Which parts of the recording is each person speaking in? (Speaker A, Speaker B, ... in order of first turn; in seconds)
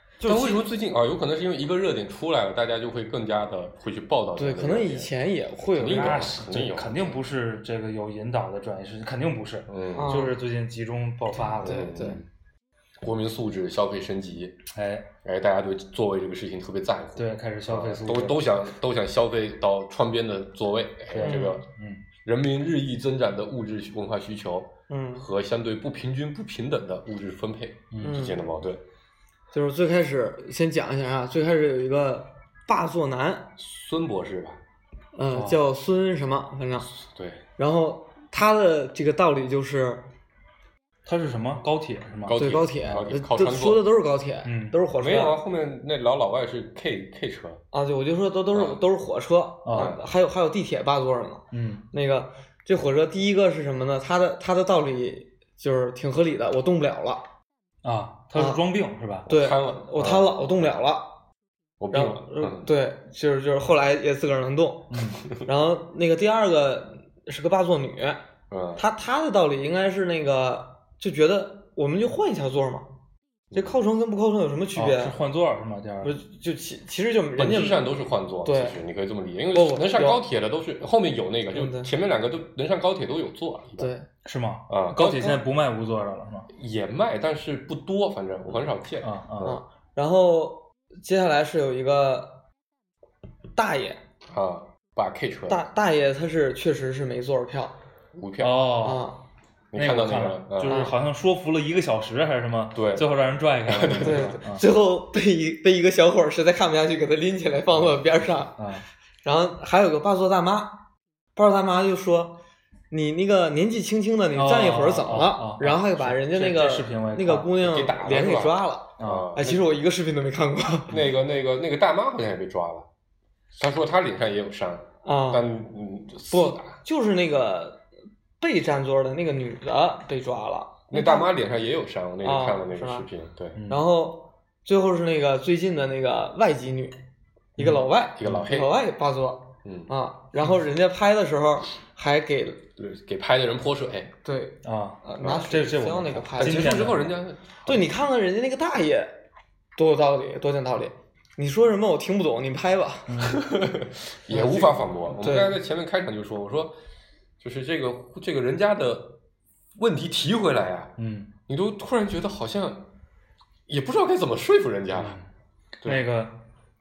Speaker A: 0.2-0.6, 4.4-6.3, 9.9-10.4, 11.6-12.2, 21.2-21.6, 24.9-25.3, 28.0-28.4, 29.5-33.5, 35.1-36.9, 37.6-40.1, 42.3-45.4, 47.7-57.3, 58.3-58.6, 59.3-61.1, 61.9-68.2, 68.8-72.9, 73.5-75.2, 76.0-78.8, 79.5-80.2, 81.5-81.9, 83.8-84.1, 89.4-92.4, 93.5-94.0, 95.5-97.7, 98.8-99.2, 100.6-101.0, 104.0-108.6, 109.2-110.8, 111.3-112.4, 112.9-121.0, 125.0-125.4, 126.3-127.8, 128.4-131.3, 132.2-133.1, 133.7-137.0, 137.6-142.6, 144.2-146.9, 147.7-149.2, 149.8-153.4, 154.3-155.6
Speaker B: 0.2-7.3, 9.7-10.3, 11.6-12.3, 13.0-14.6, 15.2-21.6, 22.2-28.8, 33.6-34.6, 36.9-37.4, 42.2-43.8, 45.0-47.6, 48.5-48.8, 49.7-50.0, 59.3-60.8, 61.8-62.7, 68.5-68.8, 73.5-73.8, 77.4-83.9, 84.7-85.4, 86.5-89.5, 94.3-95.6, 98.2-98.8, 99.7-100.9, 102.7-103.1, 103.7-104.4, 107.7-108.0, 117.6-119.7, 120.9-122.9, 123.6-126.8, 130.9-133.6, 138.2-138.8, 139.6-139.9, 142.8-144.1, 145.2-145.6, 146.3-147.9, 153.4-156.7, 157.4-159.2, 159.8-161.0, 161.5-162.9, 163.7-165.2
Speaker C: 5.8-12.2, 14.7-15.1, 17.2-18.5, 21.1-22.0, 27.9-28.2, 35.3-35.6, 41.0-42.6, 44.4-44.8, 49.6-50.0, 51.5-51.9, 57.8-59.3, 64.9-65.2, 74.7-76.2, 84.2-86.5, 89.0-89.6, 98.4-99.0, 99.7-104.6, 108.5-108.8, 114.3-117.5, 119.0-119.3, 133.5-133.8, 137.6-138.4, 144.6-147.2, 153.1-153.4, 161.0-161.3, 164.9-165.3, 165.8-166.4